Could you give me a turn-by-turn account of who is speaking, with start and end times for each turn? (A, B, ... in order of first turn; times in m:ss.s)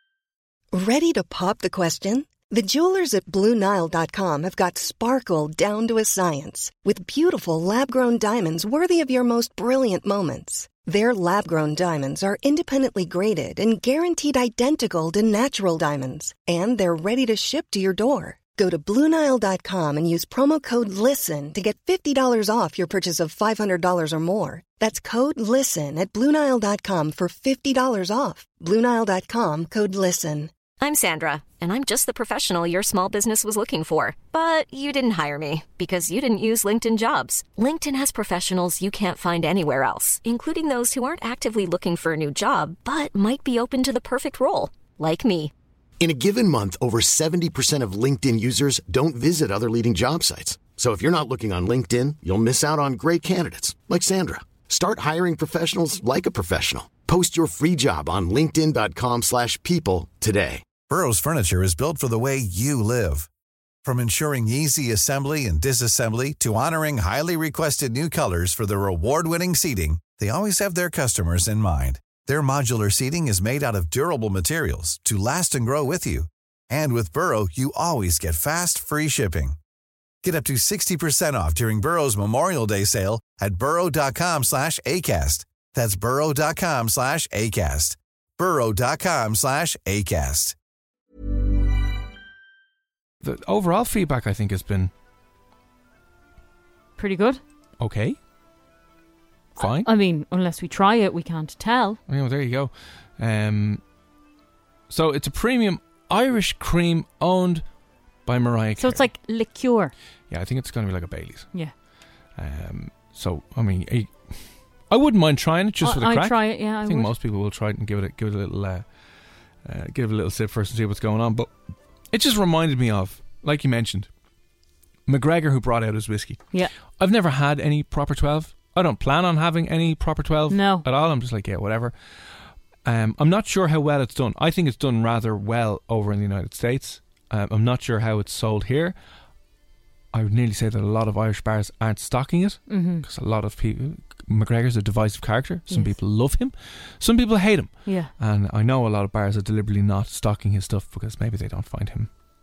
0:00.7-0:30.5 A
0:30.8-0:45.5 B
0:46.0-1:00.6 C
1:00.9-1:03.3 D
1:03.8-1:19.6 D
1:20.2-1:30.6 D
1:33.2-1:34.9 E
1:37.0-1:37.4 F
1:37.8-1:38.2 E
1:39.6-1:39.9 E
1:39.6-1:42.0 F
1:42.1-1:43.8 E
1:44.9-1:47.6 E
1:48.3-1:49.1 E
1:48.8-1:49.9 F
1:50.3-1:51.5 E
1:52.4-1:54.4 E
1:54.9-1:58.8 E
1:55.8-1:57.1 F
1:59.6-2:01.5 E
2:02.1-2:04.1 E
2:05.1-2:06.4 E
2:07.0-2:11.9 E
2:10.5-2:10.8 F
2:12.8-2:19.0 E
2:20.1-2:32.1 E
2:22.7-2:23.0 F
2:25.7-2:26.0 F
2:27.9-2:28.1 F